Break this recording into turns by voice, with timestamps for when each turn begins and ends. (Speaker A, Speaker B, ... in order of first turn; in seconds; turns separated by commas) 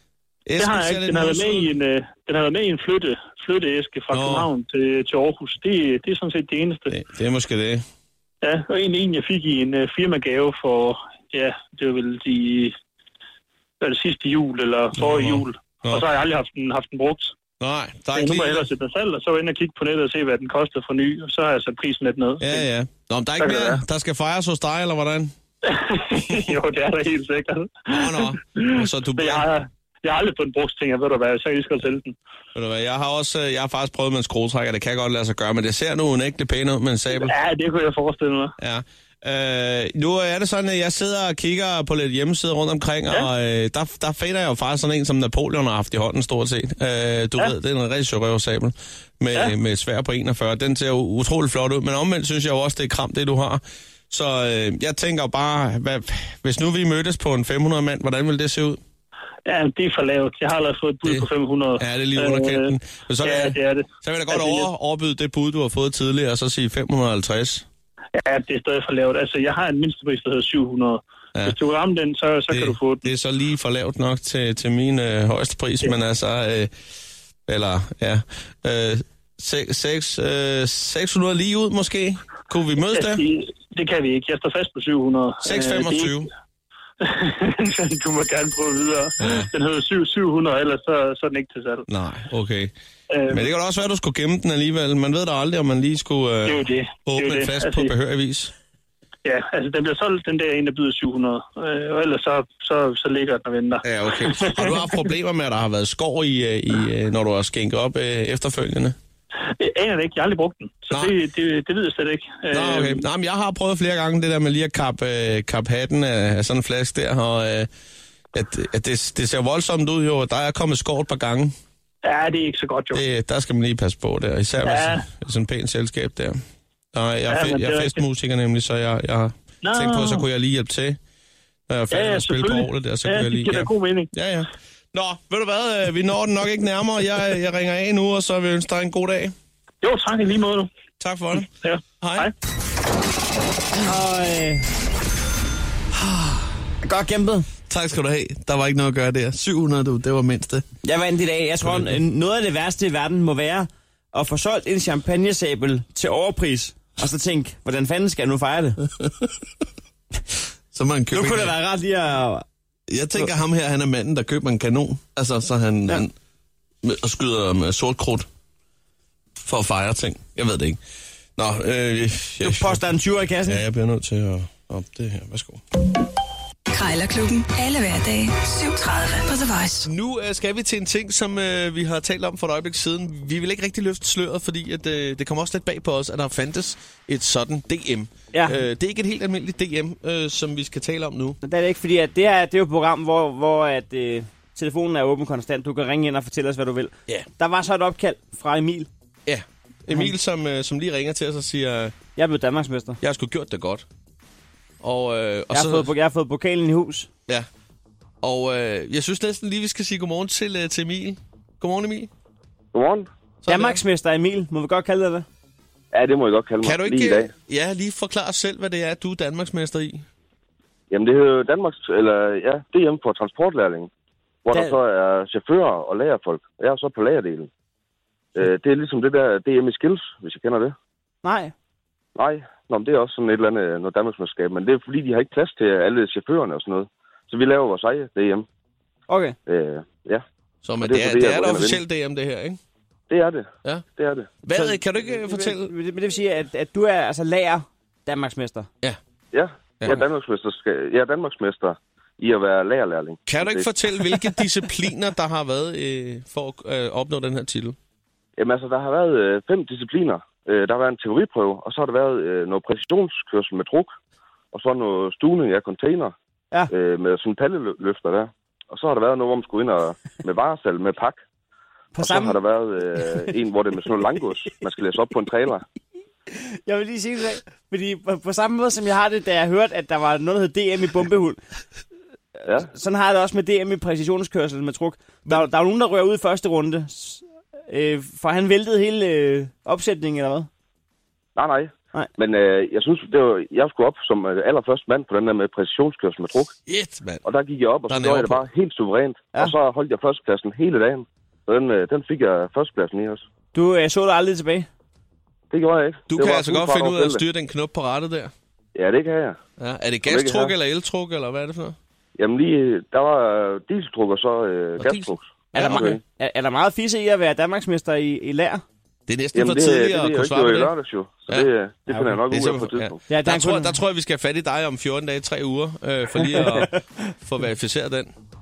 Speaker A: 0.5-1.7, Speaker B: 0.6-6.9, Speaker A: 4.1-4.5, Speaker A: 6.9-7.8, Speaker B: 8.4-12.8, Speaker B: 13.8-17.4, Speaker A: 14.9-16.1, Speaker A: 17.6-18.7, Speaker B: 18.1-22.6, Speaker A: 22.4-25.3, Speaker B: 23.4-23.8, Speaker B: 25.6-32.1, Speaker A: 26.1-26.5, Speaker A: 27.9-29.5, Speaker A: 32.5-37.3, Speaker B: 37.1-38.5, Speaker A: 38.6-58.8, Speaker B: 59.5-64.7, Speaker A: 61.0-67.7, Speaker B: 68.1-73.1, Speaker A: 72.5-76.7, Speaker A: 77.5-83.2, Speaker B: 82.9-86.3, Speaker A: 85.4-86.3, Speaker B: 87.0-91.8, Speaker A: 89.2-89.5, Speaker A: 91.9-92.7, Speaker B: 93.1-93.5, Speaker A: 93.3-98.5, Speaker B: 96.4-97.9, Speaker B: 99.2-105.0, Speaker A: 103.8-109.0, Speaker B: 109.6-113.0, Speaker A: 110.9-111.2, Speaker A: 112.5-117.7, Speaker A: 118.3-121.5, Speaker B: 122.0-123.0, Speaker A: 122.9-126.4, Speaker B: 124.6-125.1, Speaker A: 126.9-131.0, Speaker B: 127.3-128.0, Speaker B: 129.6-130.2, Speaker A: 131.7-139.3, Speaker B: 131.9-134.1, Speaker B: 139.8-140.7, Speaker A: 141.0-141.5, Speaker B: 141.3-142.3, Speaker A: 142.0-142.3, Speaker C: 143.8-144.7, Speaker C: 146.8-147.5, Speaker A: 147.7-150.7, Speaker C: 150.8-158.8, Speaker A: 151.6-151.9, Speaker A: 159.0-159.3, Speaker A: 160.7-161.5, Speaker C: 161.1-162.4, Speaker A: 162.9-166.1, Speaker A: 166.8-168.3, Speaker A: 169.4-170.8, Speaker A: 171.4-172.8, Speaker C: 172.4-173.6, Speaker A: 173.4-175.6, Speaker D: 176.7-179.9, Speaker A: 179.8-191.4, Speaker C: 188.3-188.6, Speaker C: 191.4-198.9, Speaker A: 199.2-201.9, Speaker C: 202.2-203.0, Speaker A: 203.0-203.8, Speaker A: 204.8-205.9, Speaker C: 205.5-207.1, Speaker A: 208.2-212.1, Speaker E: 212.7-213.1, Speaker A: 213.4-213.8, Speaker C: 213.5-215.2, Speaker E: 215.9-217.3, Speaker A: 216.6-220.0, Speaker E: 220.9-223.9, Speaker E: 224.4-227.5, Speaker C: 224.5-224.8, Speaker E: 228.3-230.8, Speaker C: 231.2-231.5, Speaker E: 232.2-238.4, Speaker C: 239.1-239.3, Speaker E: 239.4-240.2, Speaker A: 240.6-242.6, Speaker E: 240.8-241.8, Speaker E: 243.1-244.3, Speaker A: 244.4-245.7, Speaker C: 244.5-248.7, Speaker E: 249.3-253.7, Speaker A: 253.3-257.8, Speaker E: 258.4-263.9, Speaker E: 264.5-266.1, Speaker E: 266.7-271.2, Speaker C: 271.9-272.4, Speaker E: 272.0-275.6, Speaker C: 276.3-281.4, Speaker C: 282.6-290.5, Speaker E: 291.4-296.5, Speaker A: 296.7-297.2, Speaker E: 297.2-303.2, Speaker A: 297.9-298.4, Speaker C: 303.5-304.7, Speaker E: 305.5-307.2, Speaker A: 306.1-308.3, Speaker E: 308.7-309.4, Speaker A: 309.6-311.8, Speaker E: 310.0-310.5, Speaker E: 312.2-316.0, Speaker A: 314.8-316.0, Speaker C: 315.5-318.6, Speaker A: 319.1-320.7, Speaker E: 319.3-323.0, Speaker A: 321.3-328.1, Speaker C: 321.9-322.1, Speaker C: 323.1-323.8, Speaker C: 326.3-326.7